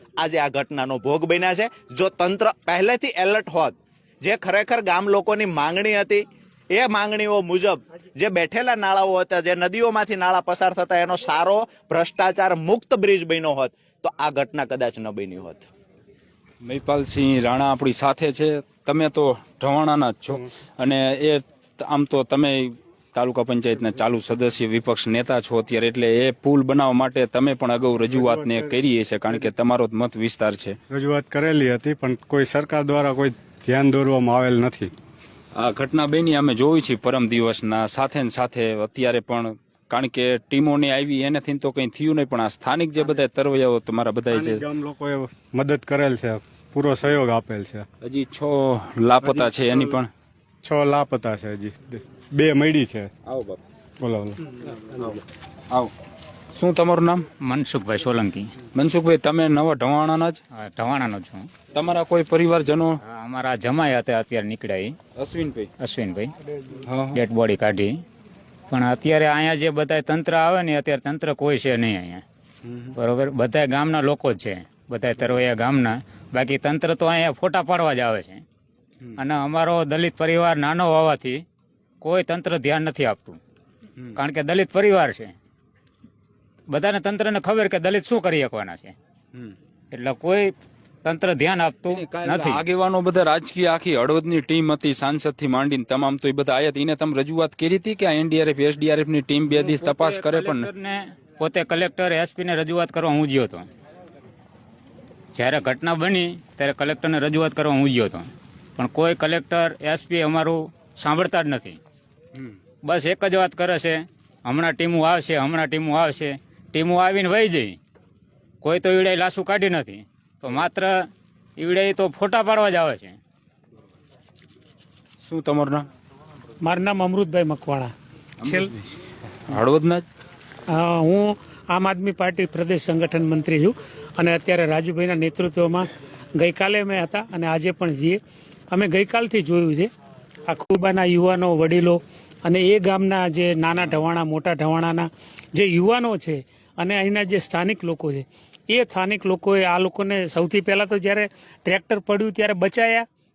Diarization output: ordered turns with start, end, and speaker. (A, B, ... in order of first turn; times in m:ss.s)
0:00.2-0:15.7 A
0:16.6-0:30.8 B
0:28.0-0:28.8 C
0:30.9-0:34.9 C
0:35.6-0:44.6 B
0:44.3-0:47.9 C
0:48.0-0:50.1 B
0:49.2-0:50.0 C
0:50.6-0:53.1 C
0:53.3-0:53.6 B
0:54.0-0:54.4 C
0:54.9-0:55.2 B
0:56.6-0:57.2 B
0:57.4-0:58.5 D
0:58.8-1:00.4 B
1:00.5-1:01.5 D
1:01.7-1:03.0 B
1:03.0-1:05.0 D
1:05.2-1:05.7 B
1:05.8-1:06.3 D
1:06.9-1:07.2 B
1:07.1-1:08.0 D
1:08.7-1:12.2 D
1:13.0-1:18.4 D
1:19.2-1:21.4 D
1:22.0-1:23.4 D
1:24.1-1:25.4 D
1:26.7-1:29.0 D
1:29.9-1:32.6 D
1:31.9-1:40.7 B
1:39.5-1:43.7 D
1:45.3-1:51.8 D
1:52.8-1:57.8 D
1:58.6-2:03.2 D
2:05.2-2:05.9 B
2:06.6-2:07.9 E
2:08.4-2:08.9 B
2:08.4-2:08.7 E
2:09.4-2:10.0 B
2:10.7-2:18.2 E
2:18.7-2:19.9 E
2:20.5-2:33.1 E